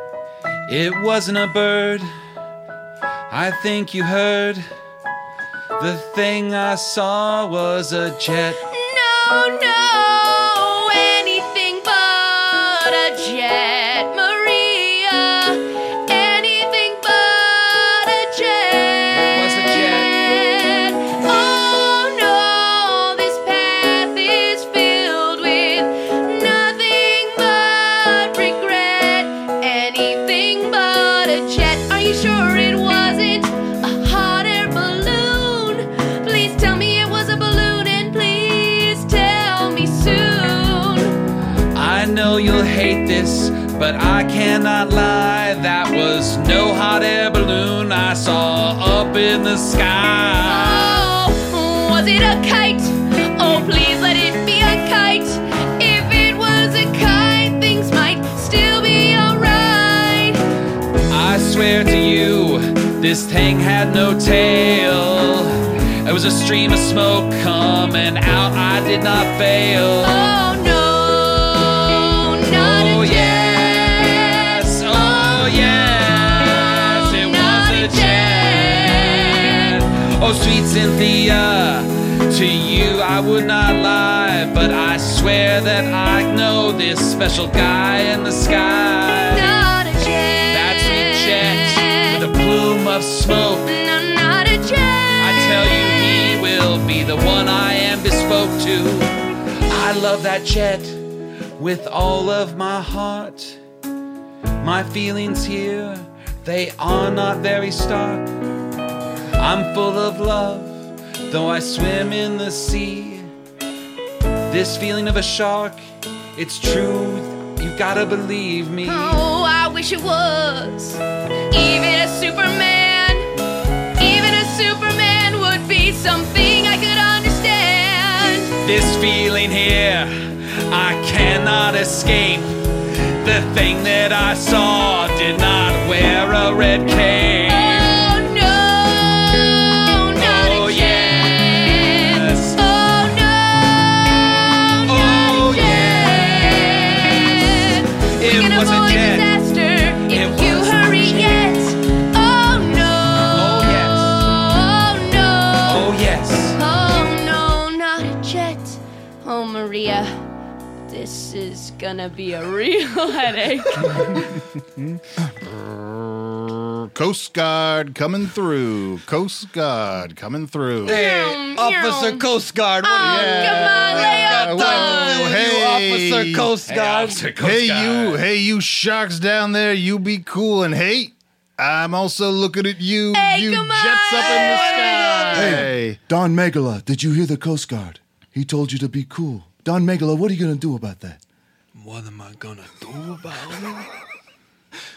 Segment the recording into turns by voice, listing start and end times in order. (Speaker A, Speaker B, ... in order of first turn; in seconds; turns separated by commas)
Speaker A: 0.7-2.1, Speaker A: 3.3-4.7, Speaker A: 5.8-8.6, Speaker B: 8.7-41.1, Speaker A: 19.1-20.1, Speaker A: 41.7-51.1, Speaker B: 50.4-60.4, Speaker A: 61.1-70.3, Speaker B: 70.0-79.8, Speaker A: 72.5-89.5, Speaker B: 89.3-92.2, Speaker A: 90.5-93.7, Speaker B: 93.6-96.4, Speaker A: 95.2-99.1, Speaker A: 99.7-101.0, Speaker A: 101.6-103.6, Speaker A: 104.6-108.3, Speaker A: 109.4-113.3, Speaker A: 114.5-115.8, Speaker A: 116.3-119.2, Speaker B: 118.8-123.3, Speaker B: 124.0-128.5, Speaker A: 128.6-130.1, Speaker A: 130.7-132.6, Speaker A: 133.2-138.0, Speaker B: 137.4-155.9, Speaker A: 140.2-142.6, Speaker A: 144.8-149.3, Speaker A: 150.1-151.4, Speaker A: 153.3-154.3, Speaker A: 155.6-156.6, Speaker B: 156.6-160.1, Speaker B: 160.9-164.1, Speaker C: 165.4-171.0, Speaker B: 170.8-172.3, Speaker D: 170.8-177.2, Speaker B: 172.8-175.3, Speaker C: 173.0-176.5, Speaker A: 176.7-178.2, Speaker C: 177.4-186.0, Speaker B: 183.1-185.3, Speaker D: 184.1-185.7, Speaker E: 185.3-191.2, Speaker D: 191.7-193.9